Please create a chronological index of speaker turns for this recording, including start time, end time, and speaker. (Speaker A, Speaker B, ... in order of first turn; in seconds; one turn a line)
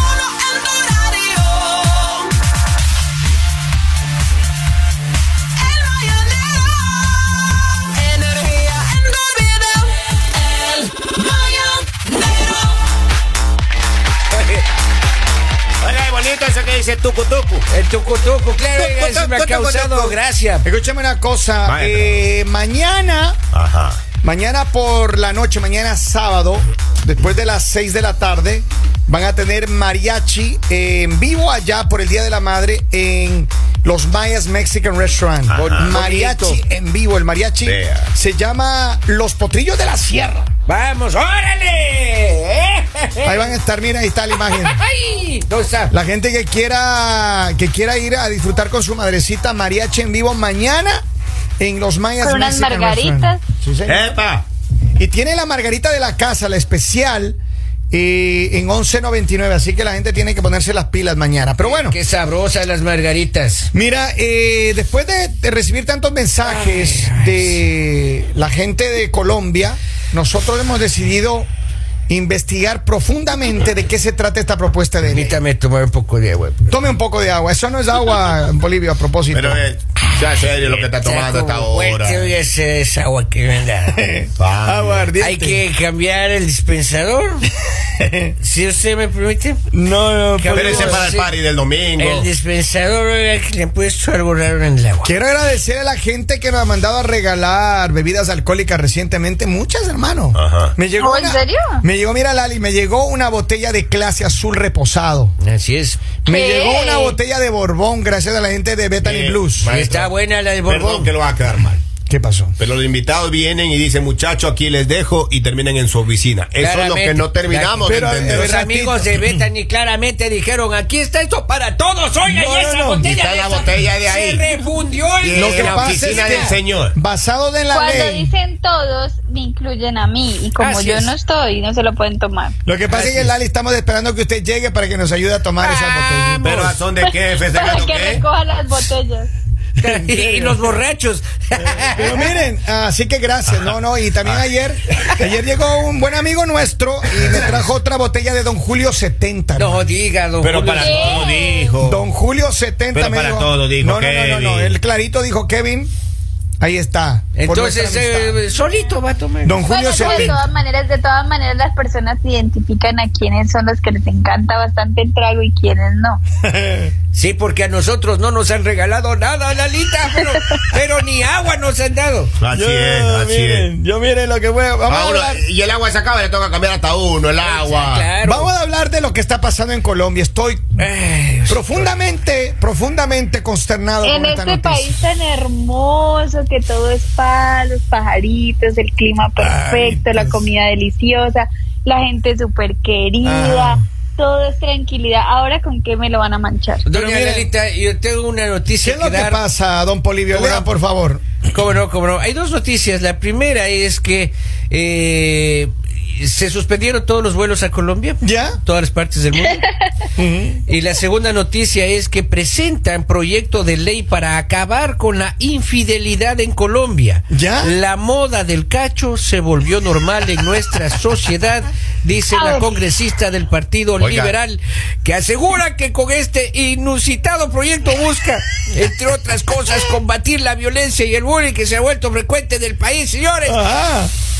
Speaker A: 0.8-1.4
Speaker A: 8.6-9.8
Speaker B: 15.8-17.7
Speaker A: 17.7-20.7
Speaker B: 18.7-20.2
Speaker C: 20.6-23.4
Speaker B: 21.7-22.2
Speaker B: 23.5-24.0
Speaker C: 24.2-40.5
Speaker B: 35.5-35.9
Speaker A: 35.5-36.6
Speaker B: 37.6-38.1
Speaker A: 40.7-43.5
Speaker C: 43.2-44.8
Speaker A: 44.4-45.9
Speaker C: 45.9-51.0
Speaker C: 51.6-54.1
Speaker D: 52.2-53.4
Speaker B: 53.9-54.5
Speaker C: 55.0-57.4
Speaker C: 57.9-62.0
Speaker A: 61.6-63.7
Speaker C: 63.7-71.5
Speaker A: 66.5-67.5
Speaker C: 72.1-75.4
Speaker A: 75.0-76.6
Speaker C: 76.7-79.6
Speaker B: 79.3-82.3
Speaker A: 80.6-84.1
Speaker C: 84.0-85.6
Speaker B: 84.4-85.1
Speaker A: 85.2-87.5
Speaker C: 88.0-88.3
Speaker A: 88.4-89.6
Speaker C: 89.7-91.1
Speaker A: 90.4-91.4
Speaker B: 90.5-92.3
Speaker A: 92.0-95.1
Speaker C: 95.0-105.3
Speaker B: 100.3-100.7
Speaker D: 101.0-101.8
Speaker A: 105.4-106.0
Speaker C: 106.2-109.7
Speaker D: 106.3-107.2
Speaker B: 109.0-110.1
Speaker A: 109.7-111.1
Speaker B: 110.6-111.8
Speaker C: 112.1-112.6
Speaker B: 112.6-118.6
Speaker A: 116.6-126.6
Speaker C: 117.8-119.3
Speaker C: 122.2-123.1
Speaker B: 123.0-124.5
Speaker B: 125.2-127.0
Speaker C: 125.3-128.3
Speaker D: 127.7-132.6
Speaker A: 130.6-131.2
Speaker C: 132.7-136.5
Speaker A: 132.9-133.3
Speaker A: 135.6-136.8
Speaker B: 136.4-138.2
Speaker D: 137.0-139.3
Speaker A: 139.8-142.3
Speaker C: 139.8-140.7
Speaker C: 141.7-149.8
Speaker B: 143.5-144.5
Speaker B: 147.2-147.7
Speaker A: 149.6-151.3
Speaker B: 150.4-152.0
Speaker D: 150.8-151.7
Speaker C: 151.8-155.9
Speaker B: 152.9-154.8
Speaker C: 156.6-158.4
Speaker A: 157.4-160.4
Speaker C: 159.4-160.4
Speaker D: 159.7-166.2
Speaker C: 166.4-166.9
Speaker A: 167.1-172.4
Speaker B: 172.4-173.7
Speaker C: 172.5-175.4
Speaker B: 174.9-178.1
Speaker A: 177.4-178.5
Speaker C: 178.2-180.9
Speaker A: 180.8-182.0
Speaker C: 181.5-184.9
Speaker D: 184.0-196.9
Speaker C: 189.4-190.5
Speaker C: 193.2-193.8
Speaker A: 196.9-199.4
Speaker C: 196.9-197.5
Speaker C: 198.8-201.3
Speaker A: 200.3-200.7
Speaker A: 201.5-209.7
Speaker C: 208.2-208.6
Speaker C: 210.2-210.6
Speaker A: 210.7-233.6
Speaker C: 217.3-217.7
Speaker B: 224.0-224.3
Speaker C: 233.4-234.1